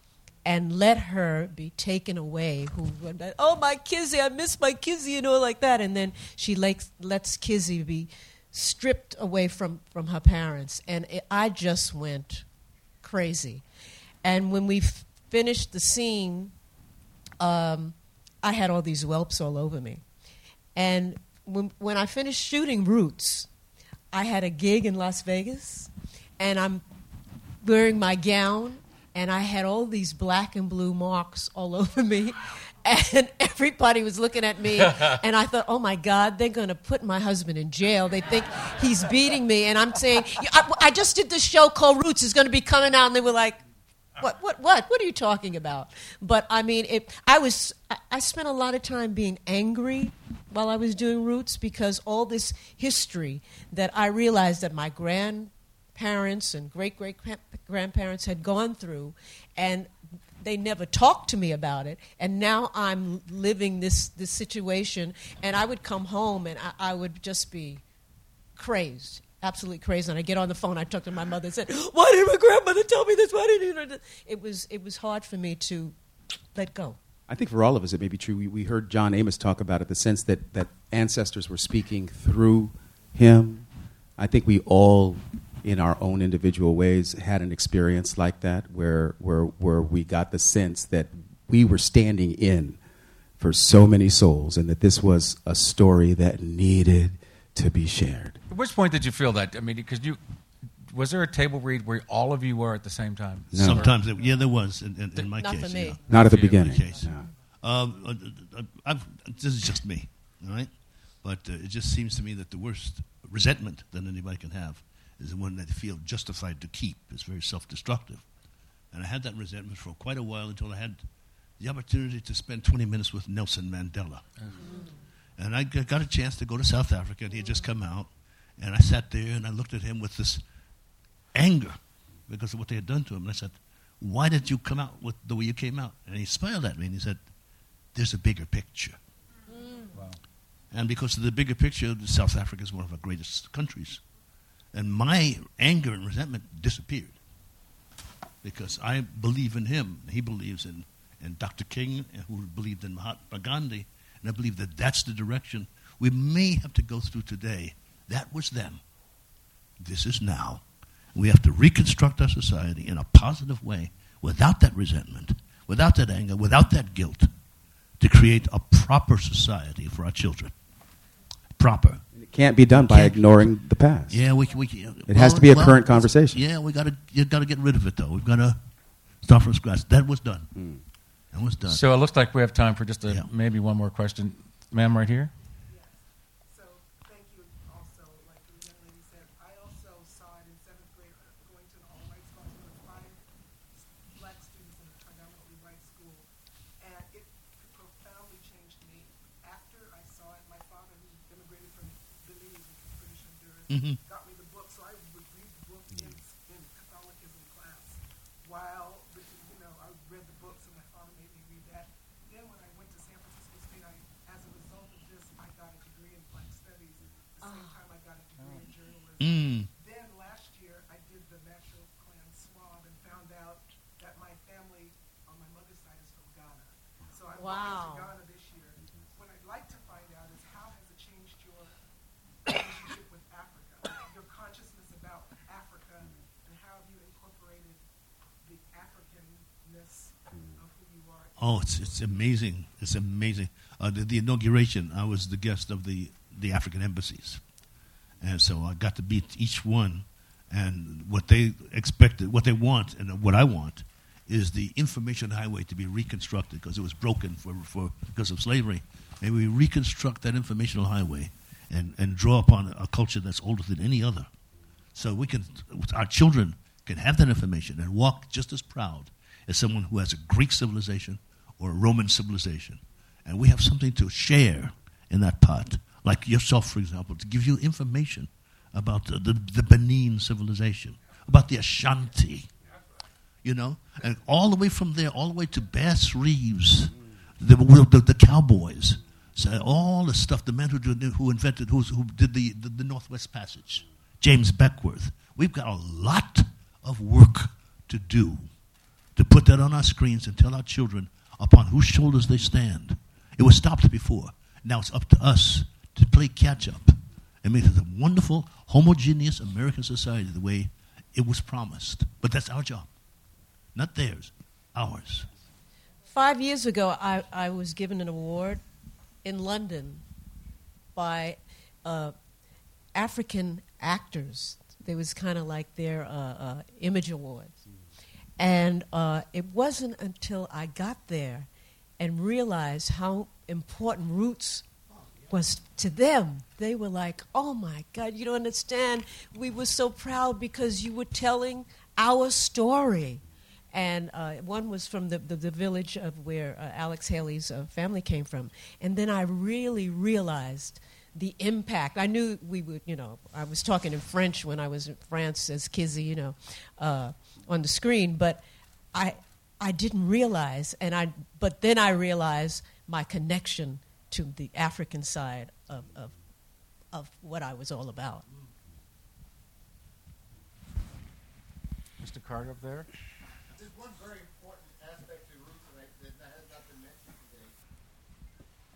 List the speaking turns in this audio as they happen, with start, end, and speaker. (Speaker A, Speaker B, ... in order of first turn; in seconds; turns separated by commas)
Speaker A: 0.4-12.4, Speaker A: 13.0-13.6, Speaker A: 14.2-16.5, Speaker A: 17.4-20.0, Speaker A: 20.7-23.5, Speaker A: 24.1-26.8, Speaker A: 27.6-43.6, Speaker A: 44.2-67.8, Speaker A: 68.5-76.0, Speaker A: 76.5-77.0, Speaker B: 77.3-83.7, Speaker B: 84.2-92.8, Speaker B: 93.4-98.4, Speaker C: 98.5-100.2, Speaker C: 100.9-104.0, Speaker D: 103.5-118.2, Speaker B: 103.5-103.9, Speaker A: 105.2-106.0, Speaker B: 106.1-107.3, Speaker C: 106.2-106.8, Speaker D: 118.9-121.0, Speaker D: 121.6-124.2, Speaker D: 125.4-130.4, Speaker D: 131.3-137.2, Speaker D: 137.9-139.0, Speaker A: 139.5-139.9, Speaker D: 140.7-144.0, Speaker D: 144.7-147.2, Speaker D: 148.4-158.8, Speaker D: 159.8-160.6, Speaker D: 161.1-167.3, Speaker D: 168.0-170.5, Speaker D: 171.6-172.0, Speaker B: 172.1-174.2, Speaker D: 172.9-173.4, Speaker D: 174.1-178.6, Speaker B: 175.1-176.4, Speaker D: 179.2-180.5, Speaker B: 180.5-180.8, Speaker D: 181.3-181.8, Speaker C: 181.7-185.3, Speaker E: 185.7-196.3, Speaker E: 196.8-231.8, Speaker D: 203.7-204.0, Speaker A: 217.4-217.7, Speaker D: 219.2-219.7, Speaker A: 227.3-228.1, Speaker E: 232.4-237.8, Speaker E: 238.4-242.1, Speaker D: 241.4-247.4, Speaker D: 248.2-264.3, Speaker D: 264.9-282.5, Speaker D: 283.4-298.5, Speaker D: 299.1-312.9, Speaker D: 313.7-315.3, Speaker A: 316.1-318.6, Speaker A: 319.2-320.0, Speaker A: 320.9-322.1, Speaker A: 322.9-327.6, Speaker A: 328.4-331.5, Speaker A: 332.0-334.6, Speaker A: 335.3-343.2, Speaker A: 343.7-358.4, Speaker A: 358.9-366.1, Speaker A: 366.9-368.2, Speaker C: 372.0-372.9, Speaker F: 373.5-377.6